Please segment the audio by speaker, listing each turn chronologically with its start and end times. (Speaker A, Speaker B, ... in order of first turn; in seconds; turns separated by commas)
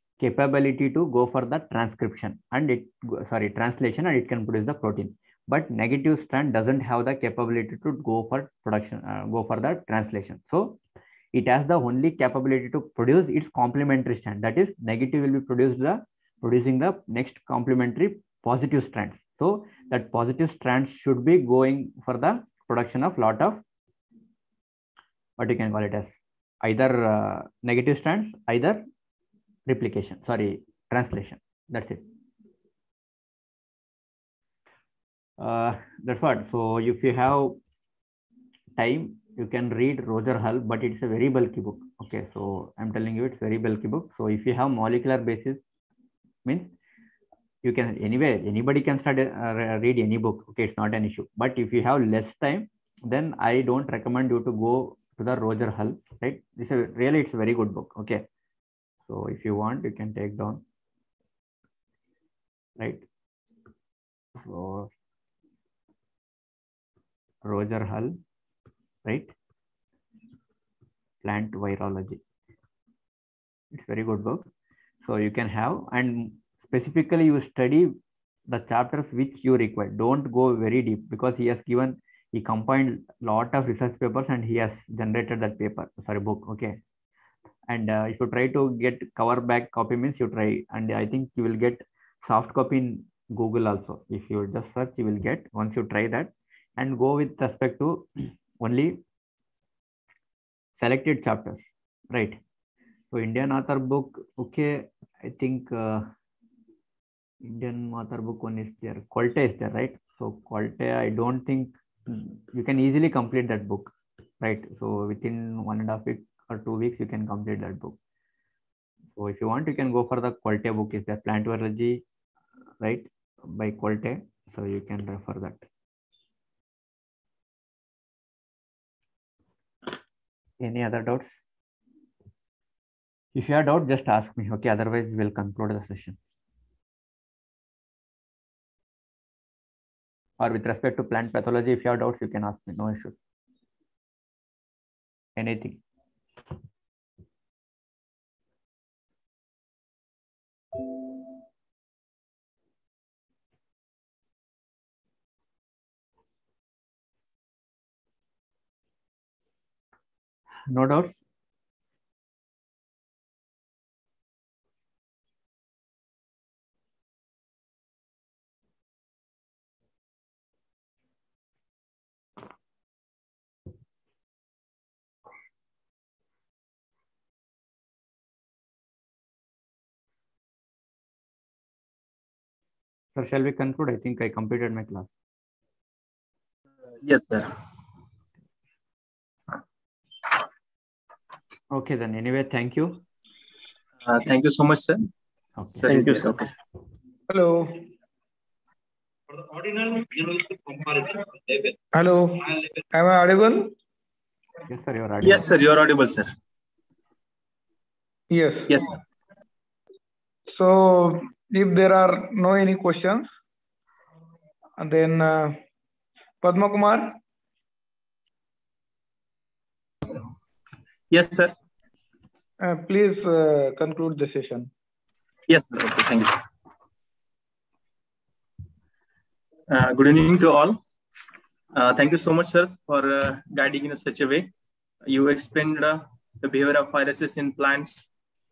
Speaker A: 0.2-10.8, Speaker A: 11.3-23.6, Speaker A: 25.4-28.8, Speaker A: 29.7-32.0, Speaker A: 35.4-37.6, Speaker A: 38.8-45.6, Speaker A: 46.4-46.7, Speaker A: 47.6-58.2, Speaker A: 59.0-60.6, Speaker A: 62.8-63.0, Speaker A: 64.4-64.9, Speaker A: 67.4-68.2, Speaker A: 69.0-69.3, Speaker A: 71.2-72.2, Speaker A: 73.7-74.5, Speaker A: 75.0-78.0, Speaker A: 78.5-86.8, Speaker A: 87.7-98.1, Speaker A: 98.6-99.0, Speaker A: 100.8-102.4, Speaker A: 103.1-106.1, Speaker A: 107.4-118.0, Speaker A: 119.2-122.0, Speaker A: 122.8-125.6, Speaker A: 130.6-131.4, Speaker A: 133.3-136.2, Speaker A: 140.4-143.2, Speaker A: 145.3-145.8, Speaker A: 160.7-161.2, Speaker A: 183.1-185.1, Speaker B: 187.0-187.5, Speaker A: 191.7-193.0, Speaker B: 194.0-195.1, Speaker A: 195.6-196.2, Speaker B: 195.8-196.5, Speaker C: 197.3-197.9, Speaker C: 201.9-203.7, Speaker A: 204.7-205.4, Speaker B: 205.2-206.3, Speaker C: 208.3-208.7, Speaker B: 208.7-208.9, Speaker C: 210.5-213.3, Speaker C: 214.8-215.6, Speaker C: 216.4-217.2, Speaker B: 221.1-221.5, Speaker C: 222.6-224.7, Speaker B: 225.5-226.4, Speaker B: 229.7-230.8, Speaker B: 231.7-234.5, Speaker B: 235.0-238.1